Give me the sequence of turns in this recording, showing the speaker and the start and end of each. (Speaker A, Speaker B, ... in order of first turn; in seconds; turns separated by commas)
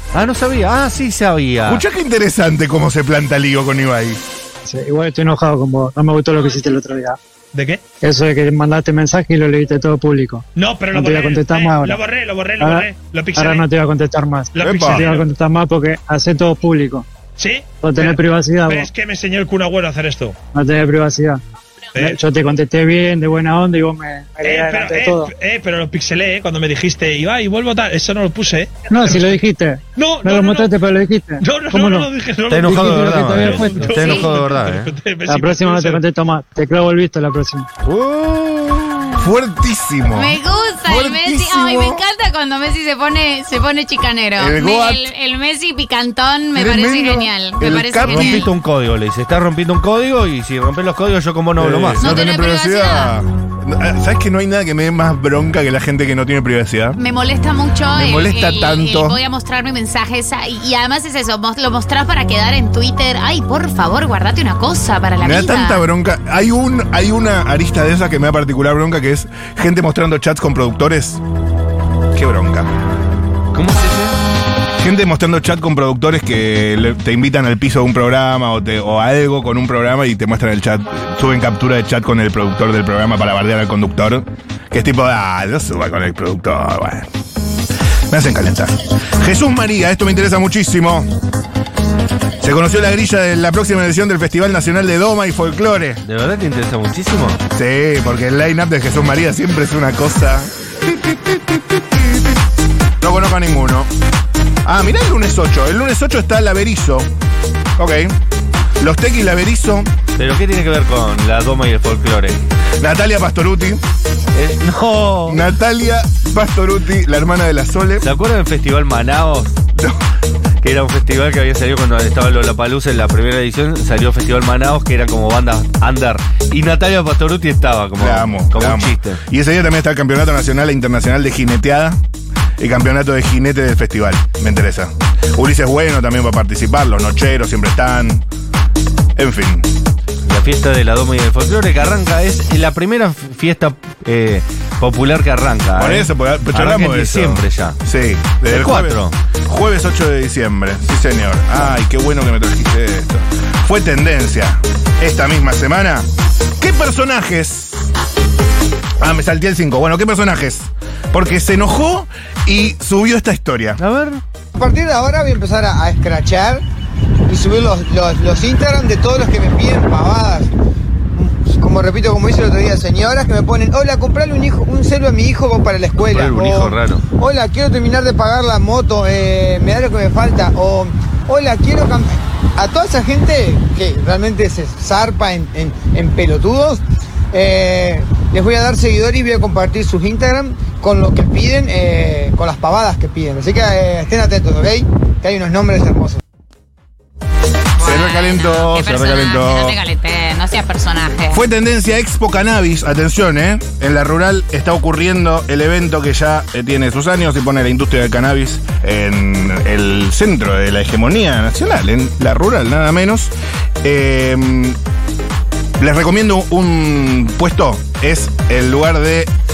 Speaker A: 0.1-1.8, Speaker B: 1.6-4.2, Speaker C: 4.7-7.2, Speaker D: 7.5-7.8, Speaker C: 8.0-12.0, Speaker D: 10.6-13.7, Speaker C: 12.6-17.1, Speaker D: 14.6-15.2, Speaker B: 14.6-15.1, Speaker D: 17.4-20.4, Speaker C: 17.8-18.9, Speaker C: 20.5-21.4, Speaker C: 22.0-25.3, Speaker D: 24.4-29.4, Speaker C: 28.9-32.1, Speaker D: 29.9-30.7, Speaker D: 31.4-36.0, Speaker A: 32.5-34.9, Speaker C: 32.6-34.2, Speaker C: 35.3-37.7, Speaker A: 37.9-39.1, Speaker B: 39.1-42.0, Speaker E: 40.1-48.5, Speaker B: 44.4-45.0, Speaker B: 46.5-48.5, Speaker A: 48.0-52.1, Speaker B: 51.6-57.0, Speaker E: 52.0-53.1, Speaker E: 57.0-65.9, Speaker B: 57.9-59.2, Speaker B: 65.2-71.2, Speaker B: 72.1-72.7, Speaker A: 73.5-74.2, Speaker B: 74.8-87.1, Speaker B: 88.1-91.1, Speaker B: 92.4-96.0, Speaker A: 96.0-97.4, Speaker B: 97.5-102.3, Speaker B: 103.0-103.9, Speaker B: 104.6-107.1, Speaker B: 107.8-108.2, Speaker B: 108.8-109.9, Speaker A: 110.2-112.5, Speaker B: 112.8-113.8, Speaker A: 114.3-115.4, Speaker B: 115.3-118.1, Speaker A: 118.0-119.6, Speaker A: 120.6-129.2, Speaker B: 128.0-132.0, Speaker B: 132.6-138.2, Speaker B: 139.2-139.7, Speaker A: 140.3-147.8, Speaker B: 145.8-156.1, Speaker A: 148.4-149.1, Speaker B: 156.6-157.9, Speaker B: 159.0-163.8, Speaker A: 163.8-164.2, Speaker F: 164.6-166.6, Speaker F: 167.3-170.5, Speaker F: 171.1-196.2, Speaker A: 176.0-177.0, Speaker E: 197.8-201.4, Speaker B: 197.8-199.8, Speaker B: 201.3-213.3, Speaker B: 213.8-214.8, Speaker B: 215.8-219.3